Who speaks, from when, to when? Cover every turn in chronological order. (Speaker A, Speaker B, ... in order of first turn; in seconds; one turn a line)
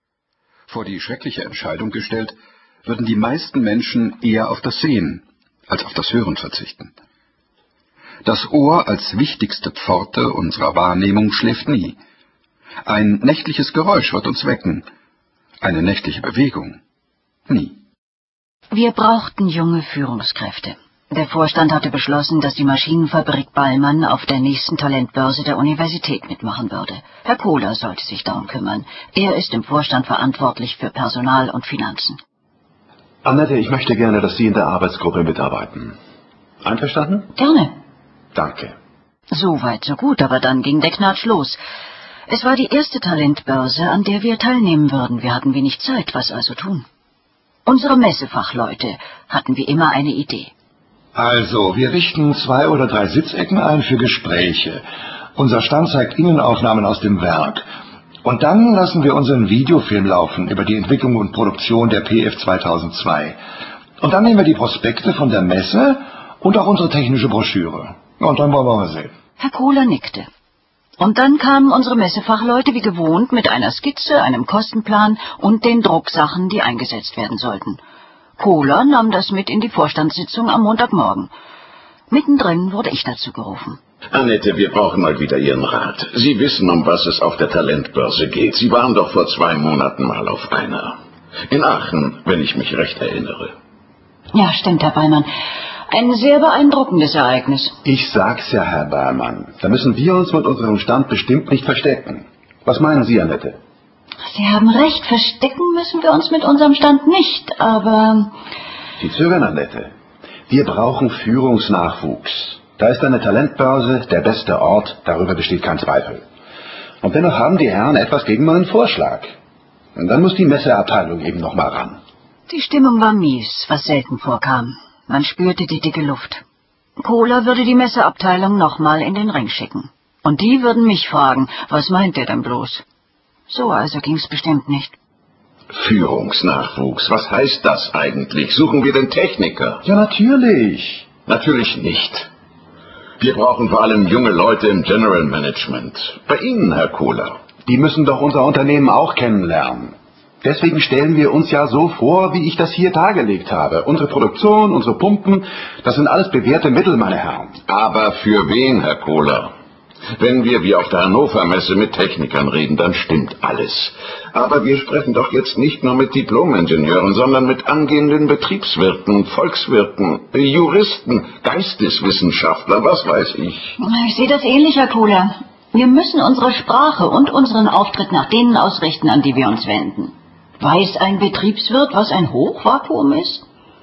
Speaker A: 0.7-2.1
Speaker A: 2.9-6.9
Speaker A: 8.2-11.9
Speaker A: 12.8-14.8
Speaker A: 15.6-16.7
Speaker A: 17.5-17.7
Speaker B: 18.7-32.2
Speaker C: 33.2-35.9
Speaker C: 36.6-37.3
Speaker B: 37.4-37.7
Speaker C: 38.3-38.7
Speaker B: 39.3-41.6
Speaker B: 42.3-46.8
Speaker B: 47.6-50.5
Speaker D: 51.1-54.8
Speaker D: 55.4-57.6
Speaker D: 58.2-63.4
Speaker D: 64.0-69.1
Speaker B: 69.4-70.3
Speaker B: 71.0-77.8
Speaker B: 78.4-81.3
Speaker B: 82.1-83.8
Speaker E: 84.1-91.0
Speaker E: 91.5-93.5
Speaker B: 94.3-95.3
Speaker B: 95.9-97.8
Speaker C: 97.8-103.6
Speaker B: 104.2-108.3
Speaker C: 109.0-109.9
Speaker C: 110.5-116.2
Speaker C: 117.0-119.3
Speaker C: 119.9-122.0
Speaker B: 122.5-126.4
Speaker B: 127.0-132.8
Speaker B: 133.5-134.9
Speaker E: 135.7-139.8
Speaker C: 139.8-141.1
Speaker E: 141.2-142.3
Speaker E: 143.2-147.4
Speaker C: 147.7-157.5
Speaker E: 157.7-159.5
Speaker E: 160.2-173.8
Speaker B: 173.8-183.4